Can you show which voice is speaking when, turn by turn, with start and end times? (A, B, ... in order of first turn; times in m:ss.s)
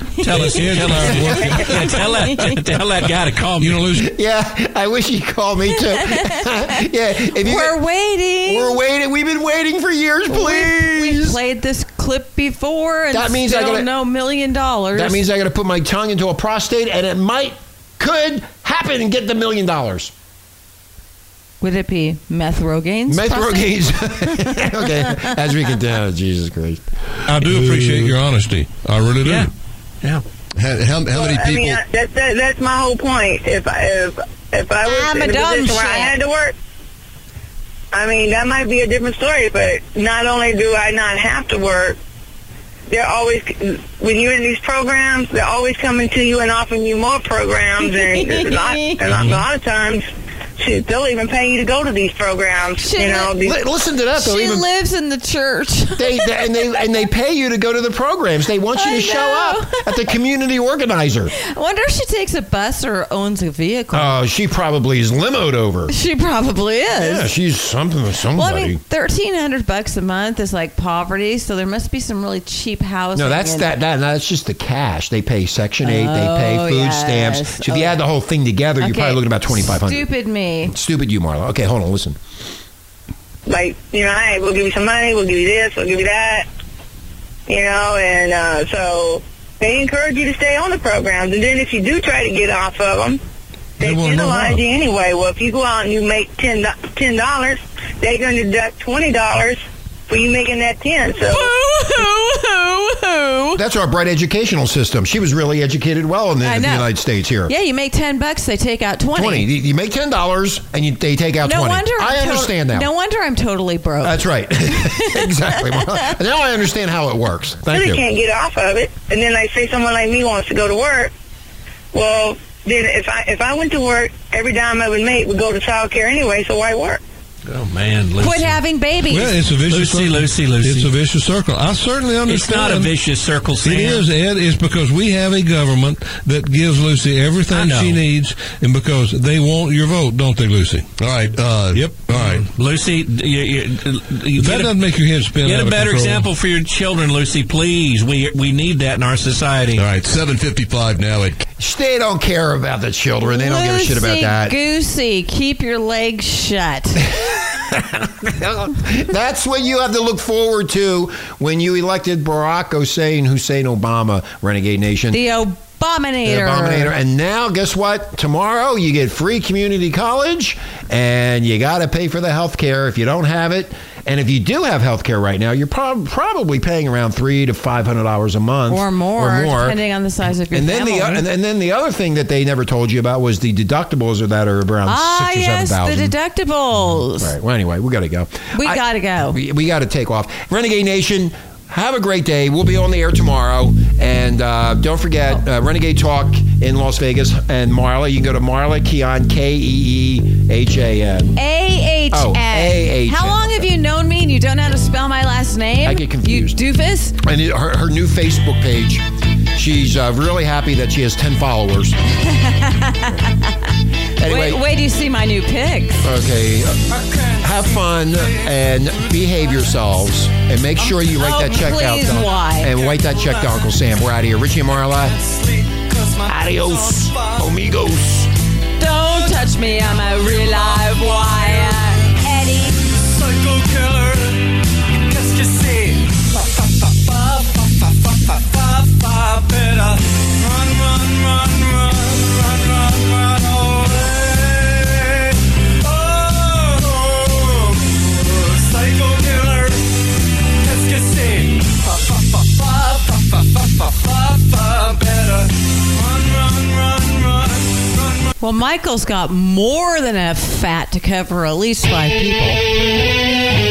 0:00.2-0:02.6 A
0:00.2-0:03.8 B
0:00.3-0:01.8 C
0:03.6-0:04.1 C
0:03.9-0:07.8 D
0:05.9-0:06.4 A
0:07.3-0:08.8 A
0:08.4-0:11.4 D
0:10.3-0:15.2 A
0:13.1-0:13.9 D
0:14.9-0:20.1 D
0:21.6-0:25.3 A
0:23.1-0:26.8 D
0:27.3-0:29.5 C
0:29.2-0:29.5 B
0:30.6-0:31.8 E
0:31.1-0:36.5 F
0:34.8-0:36.2 A
0:37.9-0:42.0 F
0:42.9-0:50.0 F
0:47.8-0:49.0 A
0:50.6-0:53.6 F
0:52.8-0:53.3 A
0:53.4-0:54.7 D
0:54.2-0:56.6 A
0:56.0-1:01.3 D
0:58.8-0:59.9 A
1:01.4-1:04.2 A
1:03.9-1:05.9 D
1:05.9-1:07.3 A
1:07.0-1:08.8 D
1:08.4-1:13.7 A
1:13.2-1:20.1 D
1:15.8-1:18.0 A
1:18.8-1:20.7 A
1:20.6-1:22.2 D
1:23.5-1:26.5 F
1:27.5-1:33.2 F
1:33.8-1:41.5 F
1:33.8-1:34.6 C
1:41.3-1:43.6 A
1:43.6-1:47.5 D
1:46.4-1:46.9 A
1:47.5-1:49.5 A
1:49.1-1:52.9 D
1:51.4-1:56.1 A
1:54.0-1:58.0 D
1:57.7-2:01.1 F
2:01.9-2:07.0 F
2:07.5-2:08.6 B
2:08.2-2:09.3 A
2:09.1-2:12.9 C
2:09.5-2:10.9 B
2:12.3-2:14.1 B
2:13.6-2:20.9 C
2:17.5-2:18.0 B
2:21.0-2:22.4 E
2:21.7-2:22.4 C
2:22.3-2:24.8 B
2:24.4-2:26.3 C
2:25.4-2:29.8 B
2:29.8-2:31.4 E
2:31.6-2:34.6 D
2:33.2-2:37.1 A
2:37.0-2:45.2 D
2:45.1-2:46.9 A
2:46.2-2:59.8 D
2:58.7-3:01.2 A
3:00.5-3:06.1 D
3:04.8-3:07.3 A
3:07.2-3:21.4 D
3:08.5-3:09.4 A
3:21.4-3:27.2 A
3:22.1-3:23.7 D
3:25.8-3:26.6 D
3:27.2-3:32.0 D
3:32.2-3:33.6 A
3:34.2-3:34.6 D
3:34.2-3:36.0 A
3:36.0-3:45.2 D
3:36.9-3:39.4 G
3:40.9-3:42.8 A
3:42.9-3:43.5 G
3:45.0-3:47.4 G
3:46.2-3:48.3 D
3:48.8-3:52.8 A
3:49.3-3:52.1 G
3:53.0-4:10.0 G
4:10.6-4:18.3 G
4:18.4-4:22.6 A